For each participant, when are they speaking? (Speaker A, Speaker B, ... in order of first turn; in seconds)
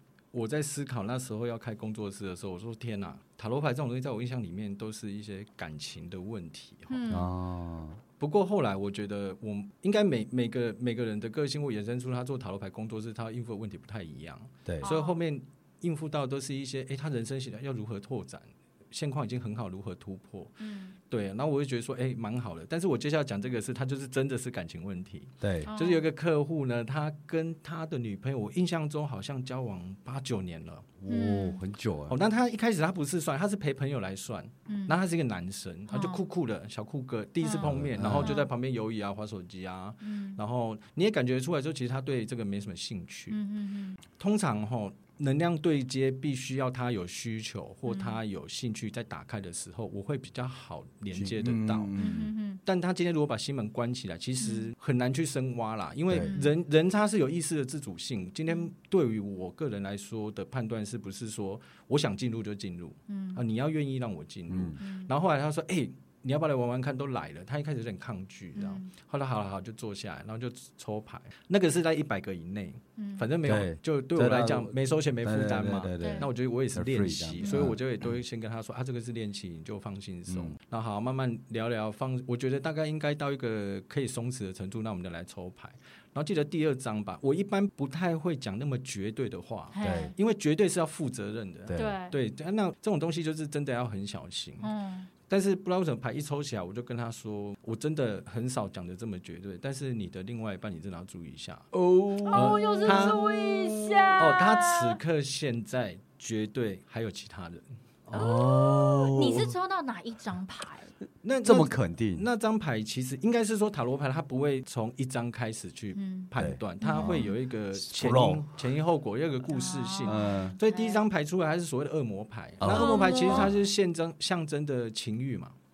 Speaker A: 0.3-7.1, 8.2-20.6, 21.1-30.9, 32.1-43.4, 44.2-51.9, 52.6-94.7, 95.3-101.7, 102.3-103.2, 104.2-108.3, 111.2-125.5
Speaker B: 6.9-7.3, 14.8-15.2, 20.6-21.0, 25.7-26.1, 31.1-31.6, 34.7-35.0, 35.9-36.2, 37.4-38.5, 40.0-40.4, 43.3-44.0, 47.9-48.2, 52.0-52.6, 54.4-54.7, 56.2-56.5, 63.1-63.4, 64.8-65.1, 68.5-68.9, 73.0-73.3, 76.0-76.3, 77.4-77.7, 89.7-90.2, 91.7-92.2, 94.6-95.1, 102.2-105.0, 108.1-110.9, 116.0-116.3, 116.8-117.3, 119.5-121.0, 122.7-123.5
Speaker C: 7.1-8.0, 25.4-25.7, 31.0-32.2, 37.6-38.4, 51.1-52.3, 64.5-64.8, 73.4-78.1, 80.3-80.6, 89.8-90.1, 91.7-92.0, 101.7-104.3, 108.1-109.6, 111.4-112.3, 116.4-118.6, 120.1-120.6, 122.6-123.5